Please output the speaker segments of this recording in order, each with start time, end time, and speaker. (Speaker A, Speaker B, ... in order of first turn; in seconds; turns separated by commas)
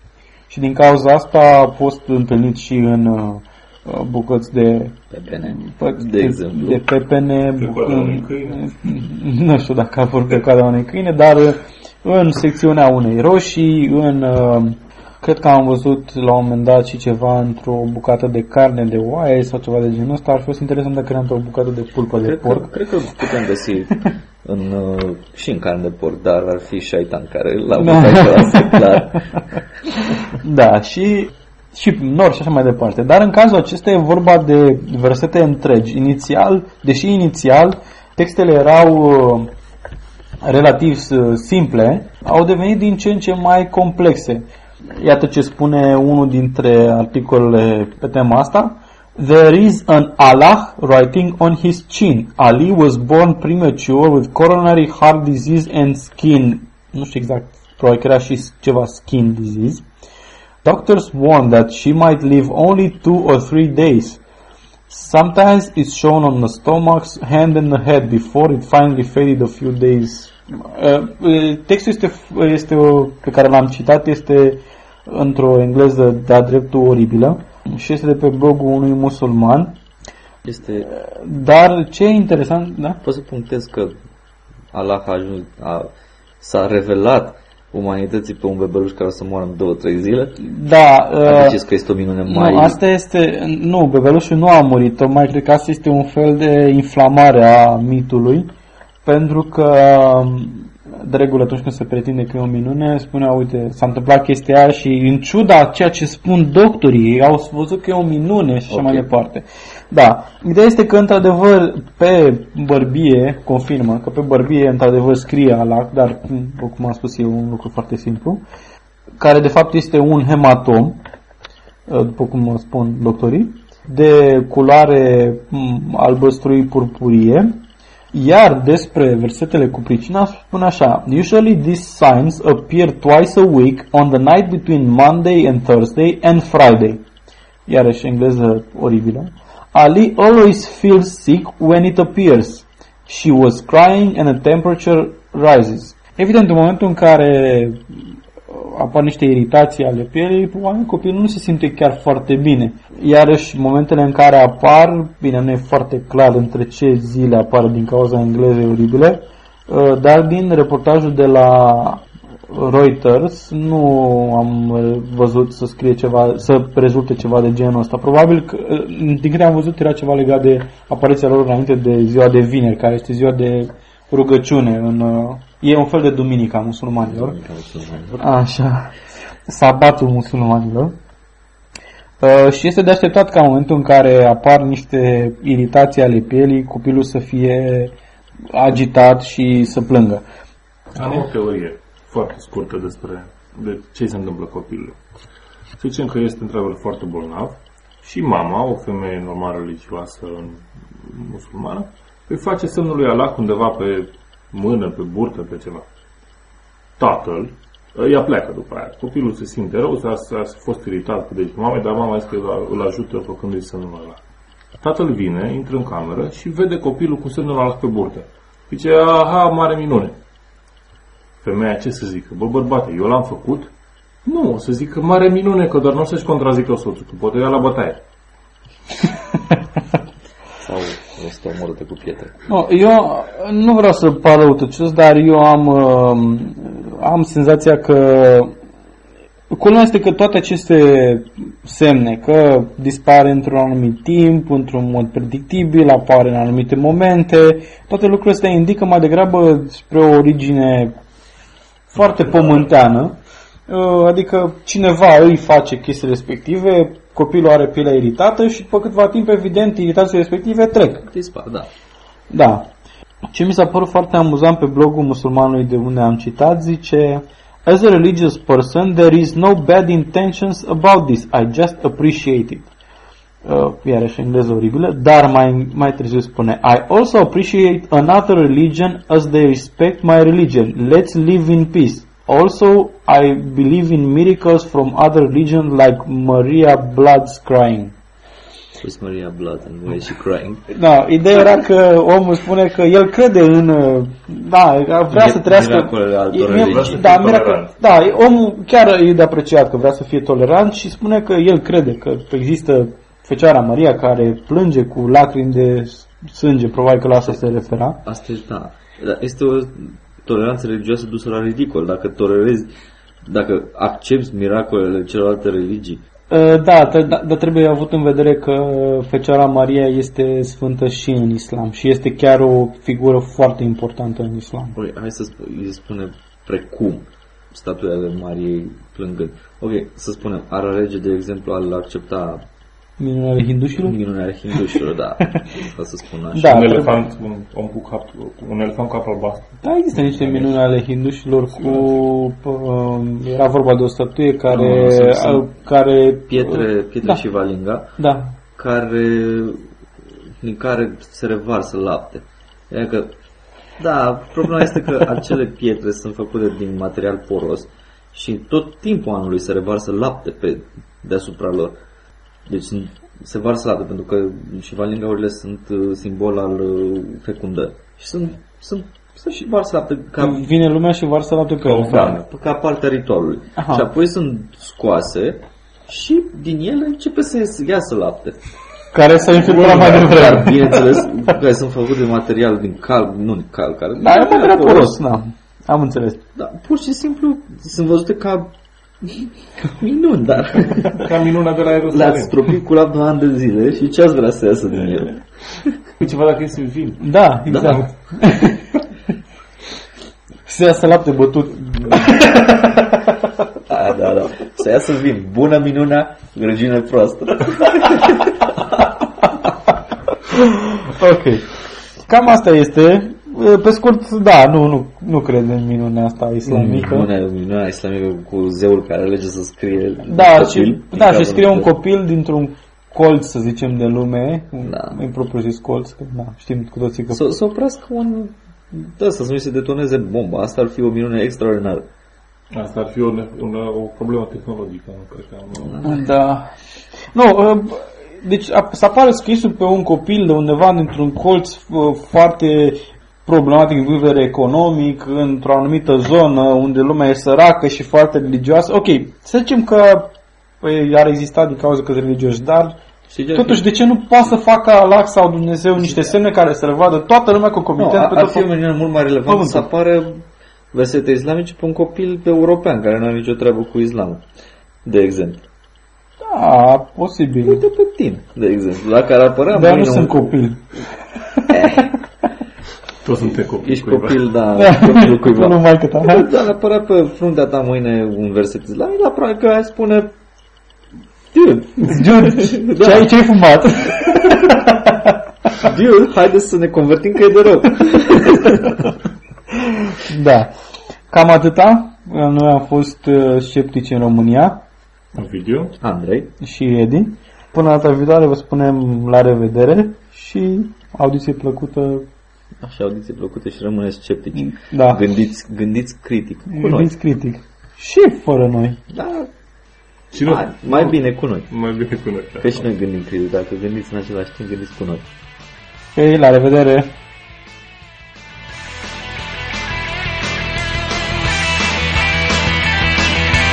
Speaker A: 0.5-22.7, Speaker B: 5.1-6.8, Speaker C: 7.5-8.9, Speaker B: 22.2-29.6, Speaker A: 27.7-39.5, Speaker A: 40.4-44.4, Speaker A: 45.0-59.8, Speaker A: 60.6-64.2, Speaker A: 64.9-79.7, Speaker B: 80.4-80.9, Speaker A: 80.8-83.0, Speaker B: 83.0-83.9, Speaker B: 84.7-85.9, Speaker B: 86.4-90.4, Speaker A: 90.4-91.6, Speaker B: 91.2-92.8, Speaker A: 92.2-98.5, Speaker A: 99.0-118.4, Speaker B: 108.7-109.0, Speaker A: 119.2-121.0, Speaker A: 121.9-127.5, Speaker A: 128.1-137.0, Speaker A: 137.7-147.8, Speaker A: 148.5-177.3, Speaker B: 177.0-178.2, Speaker A: 178.2-178.9, Speaker A: 179.5-180.9, Speaker A: 182.2-187.9, Speaker A: 188.5-190.2, Speaker C: 190.9-195.0, Speaker C: 195.8-205.9, Speaker C: 207.0-214.2, Speaker C: 214.8-220.2, Speaker C: 221.4-223.7, Speaker C: 224.2-228.0, Speaker B: 230.6-232.3, Speaker A: 232.5-238.5, Speaker A: 239.5-250.9, Speaker A: 251.9-261.1, Speaker C: 252.0-252.6, Speaker B: 261.1-261.7, Speaker A: 262.3-262.7, Speaker A: 263.3-272.7, Speaker A: 273.4-287.9, Speaker B: 288.8-290.6, Speaker A: 290.7-308.0, Speaker B: 295.1-297.3, Speaker C: 296.5-297.8, Speaker B: 308.0-312.7, Speaker B: 313.2-316.0, Speaker A: 316.3-324.8, Speaker B: 324.7-332.4, Speaker A: 333.0-334.0, Speaker B: 333.8-336.8, Speaker A: 334.5-335.6, Speaker A: 336.3-337.1, Speaker C: 336.4-340.5, Speaker A: 339.6-347.2, Speaker C: 341.6-342.0, Speaker B: 344.5-345.4, Speaker B: 346.3-347.9, Speaker A: 348.0-348.3, Speaker B: 348.6-349.7, Speaker B: 350.4-353.1, Speaker B: 353.8-361.8, Speaker B: 362.4-370.5, Speaker A: 370.2-372.2, Speaker B: 371.6-378.4, Speaker A: 373.6-373.9, Speaker A: 378.9-381.4, Speaker C: 379.4-380.4, Speaker B: 379.5-385.0, Speaker A: 384.0-386.2, Speaker B: 386.4-391.1, Speaker C: 390.8-392.4, Speaker B: 391.9-395.8, Speaker C: 396.0-397.1, Speaker A: 397.0-398.7, Speaker B: 397.5-397.8, Speaker A: 400.4-403.3, Speaker B: 403.7-408.8, Speaker A: 410.3-411.5, Speaker A: 412.1-417.1, Speaker B: 416.4-421.7, Speaker A: 420.0-427.2, Speaker B: 424.6-425.0, Speaker B: 427.1-431.9, Speaker C: 432.5-436.0, Speaker A: 435.8-436.5, Speaker A: 437.1-452.8, Speaker B: 453.1-453.6, Speaker A: 453.3-458.5, Speaker B: 455.8-456.1, Speaker B: 457.8-464.2, Speaker A: 459.3-459.7, Speaker B: 464.8-465.5, Speaker A: 466.2-467.6, Speaker B: 467.4-470.3, Speaker A: 469.5-470.6, Speaker A: 471.2-471.9, Speaker B: 471.5-471.9, Speaker C: 473.0-474.3, Speaker B: 473.6-480.1, Speaker A: 474.5-476.3, Speaker B: 481.3-483.1, Speaker A: 481.8-485.2, Speaker B: 484.0-484.5, Speaker B: 485.6-488.8, Speaker A: 489.6-490.5, Speaker A: 491.1-494.6, Speaker C: 495.1-495.7, Speaker B: 495.8-496.3, Speaker A: 496.4-502.1, Speaker B: 502.6-506.9, Speaker A: 504.4-505.0, Speaker A: 506.5-508.8, Speaker B: 508.9-509.3, Speaker C: 510.1-511.0, Speaker B: 510.2-511.5, Speaker C: 511.5-512.6, Speaker B: 512.4-515.0, Speaker A: 516.0-516.9